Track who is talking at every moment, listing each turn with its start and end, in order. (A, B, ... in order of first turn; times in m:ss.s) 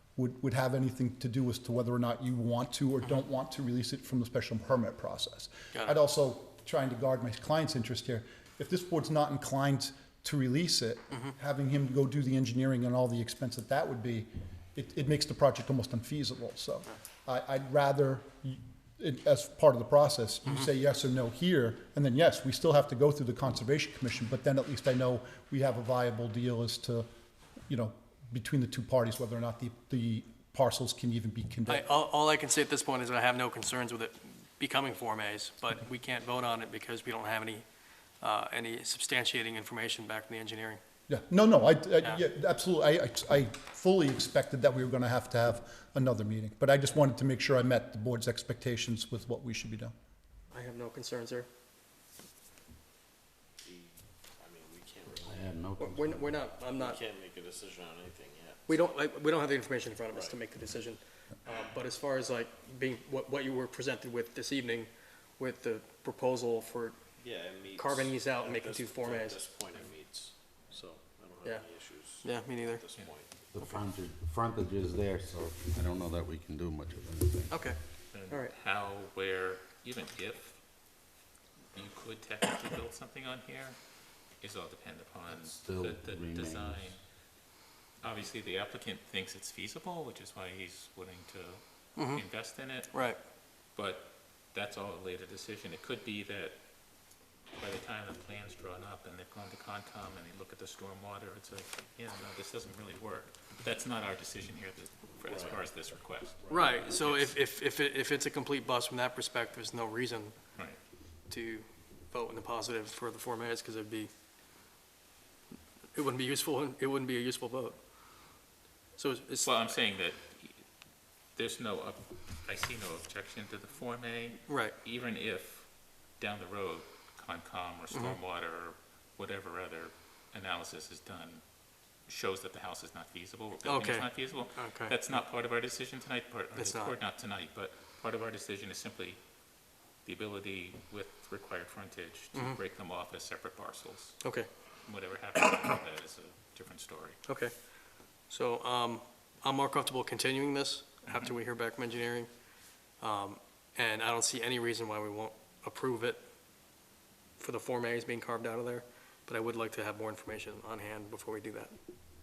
0:00.2-0:27.1 A
0:05.7-0:06.0 B
0:27.7-0:31.8 A
0:31.6-0:37.6 B
0:38.2-0:40.8 B
0:41.1-0:49.9 A
0:50.5-0:51.5 B
0:53.6-0:55.6 C
0:55.2-0:56.2 D
0:55.8-0:57.0 B
0:56.7-0:58.9 C
0:58.7-1:07.0 B
1:00.1-1:00.4 C
1:07.2-1:13.6 C
1:07.8-1:09.4 B
1:12.2-1:12.8 B
1:13.5-1:17.6 D
1:17.5-1:17.8 B
1:18.1-1:20.6 E
1:21.7-1:23.8 E
1:24.4-1:27.0 E
1:25.3-1:26.9 D
1:28.0-1:33.0 E
1:32.0-1:32.2 B
1:32.9-1:33.2 B
1:33.7-1:36.6 E
1:37.5-1:47.3 E
1:45.3-1:45.7 C
1:46.4-1:47.1 C
1:46.6-1:50.3 B
1:51.3-1:54.1 B
1:55.9-1:57.8 B
1:59.0-1:59.6 B
1:59.4-2:00.6 E
2:01.3-2:11.4 E
2:04.5-2:04.7 B
2:07.9-2:08.2 B
2:12.1-2:19.2 E
2:13.6-2:14.9 B
2:16.5-2:16.9 B
2:20.0-2:24.2 E
2:24.2-2:24.5 B
2:24.8-2:27.2 E
2:27.2-2:27.5 B
2:28.3-2:32.3 B
2:33.0-2:36.2 B
2:37.4-2:41.7 B